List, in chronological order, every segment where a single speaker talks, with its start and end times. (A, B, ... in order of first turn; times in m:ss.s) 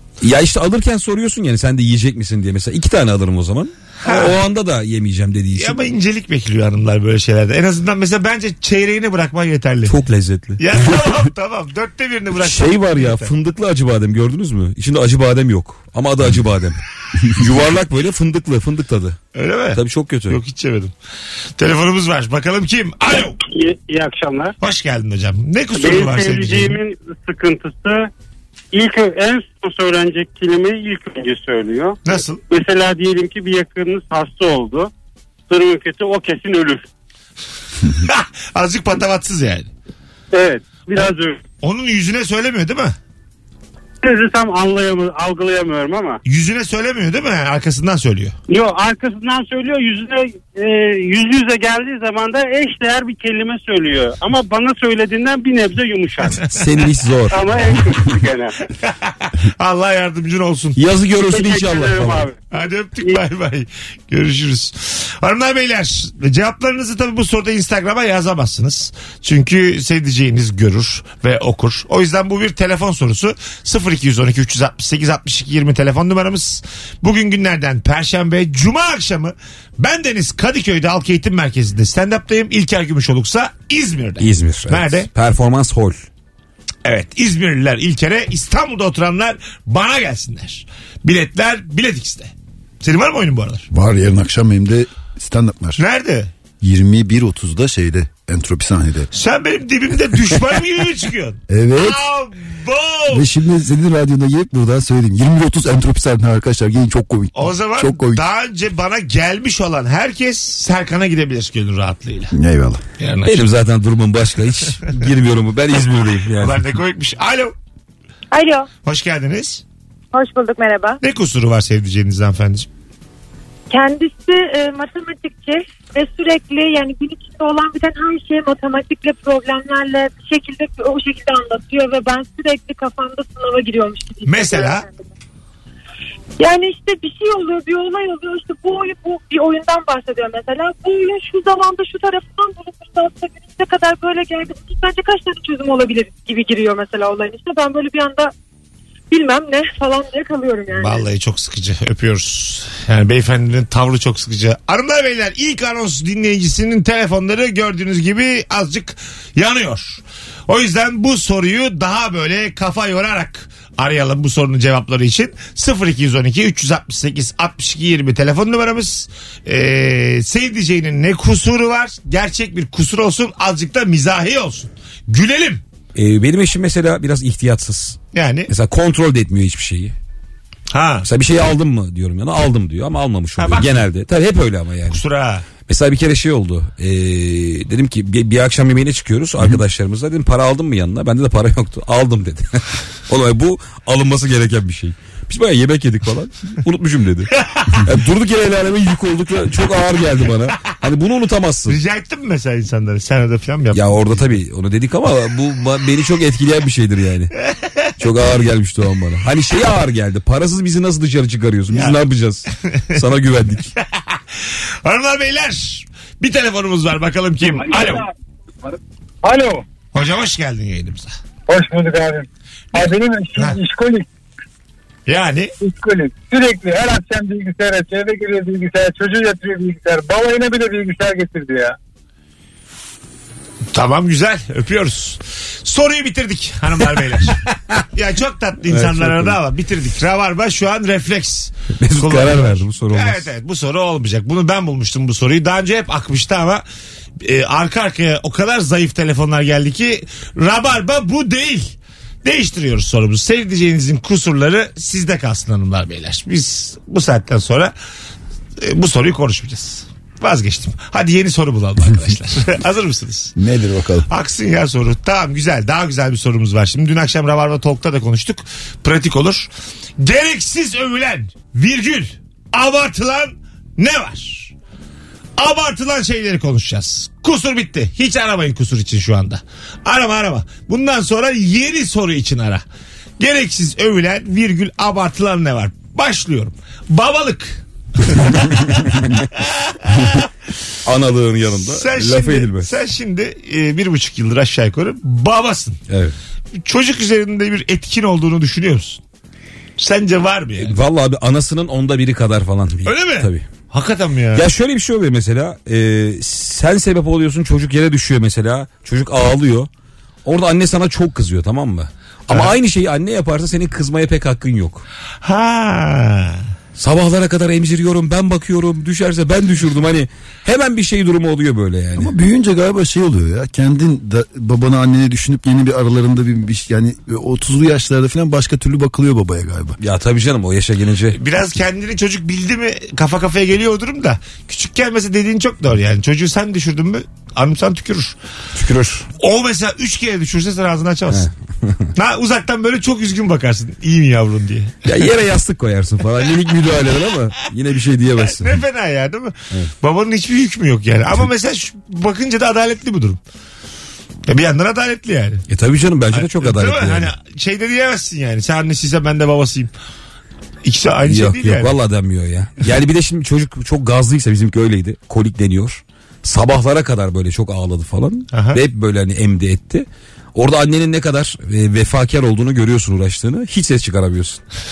0:00.2-0:05.8 A
0:04.0-0:04.4 B
0:05.5-0:09.9 B
0:09.8-0:11.1 A
0:10.6-0:13.3 B
0:12.4-0:19.2 A
0:19.3-0:20.9 B
0:19.7-0:20.4 A
0:21.6-0:23.4 B
0:23.5-0:24.5 C
0:24.6-0:26.8 B
0:25.7-0:28.1 C
0:28.7-0:34.9 C
0:32.0-0:32.4 B
0:35.5-0:36.9 C
0:37.9-0:39.7 B
0:40.3-0:41.4 C
0:41.6-0:42.9 B
0:44.0-0:46.2 C
0:46.2-0:48.4 B
0:48.5-0:56.4 C
0:56.5-0:58.0 A
0:57.3-0:58.6 C
0:58.8-1:00.8 B
1:00.8-1:02.3 A
1:01.3-1:02.4 C
1:02.5-1:25.1 B
1:24.2-1:26.0 A
1:26.8-1:33.7 B
1:33.7-1:35.8 D
1:35.8-1:36.3 B
1:36.6-1:39.1 D
1:39.1-1:43.2 B
1:41.5-1:42.0 D
1:43.1-1:48.2 D
1:47.4-1:52.3 B
1:52.3-1:52.8 D
1:53.0-1:53.4 B
1:53.2-1:56.6 A
1:56.4-1:57.5 B
1:58.3-1:58.7 E
1:58.8-1:59.6 B
2:00.1-2:01.0 E
2:01.0-2:02.7 B
2:03.7-2:15.0 E
2:14.2-2:14.8 B
2:16.4-2:28.3 E
2:29.1-2:31.0 E
2:30.7-2:55.6 B
2:55.9-2:59.9 A
2:58.1-2:58.5 B
3:00.7-3:01.0 B
3:01.0-3:05.0 A
3:03.4-3:03.8 B
3:04.9-3:05.4 B
3:05.6-3:21.8 A
3:17.4-3:17.9 B
3:21.7-3:24.0 B
3:23.7-3:27.3 A
3:28.0-3:33.7 A
3:31.7-3:32.0 B
3:34.1-3:38.1 B
3:39.2-3:39.6 F
3:39.9-3:41.2 B
3:41.5-3:44.0 F
3:42.7-3:43.6 B
3:45.1-3:45.5 B
3:45.6-3:51.8 F
3:53.7-4:06.6 B
3:58.7-3:59.4 A
4:01.8-4:03.3 A
4:07.2-4:17.7 B
4:18.6-4:23.3 B
4:23.4-4:24.1 D
4:24.1-4:34.5 B
4:35.4-4:42.6 B
4:43.2-4:50.2 B
4:50.8-4:52.7 A
4:51.7-4:55.8 B
4:55.9-4:56.1 A
4:56.6-4:59.0 B
4:59.8-5:00.8 B
5:00.6-5:03.4 A
5:02.8-5:04.5 B
5:04.3-5:09.7 A
5:10.2-5:14.8 A
5:15.2-5:16.4 B
5:16.8-5:22.1 A
5:21.9-5:29.8 D
5:29.8-5:31.2 A
5:31.1-5:38.2 B
5:38.5-5:39.1 A
5:39.2-5:41.3 B
5:41.1-5:41.9 A
5:42.0-5:44.8 B
5:44.8-5:48.6 A
5:48.3-5:53.2 B
5:54.3-5:55.4 B
5:55.5-5:57.1 A
5:56.1-5:59.7 B
6:00.6-6:01.7 B
6:01.0-6:14.4 A
6:08.3-6:08.6 B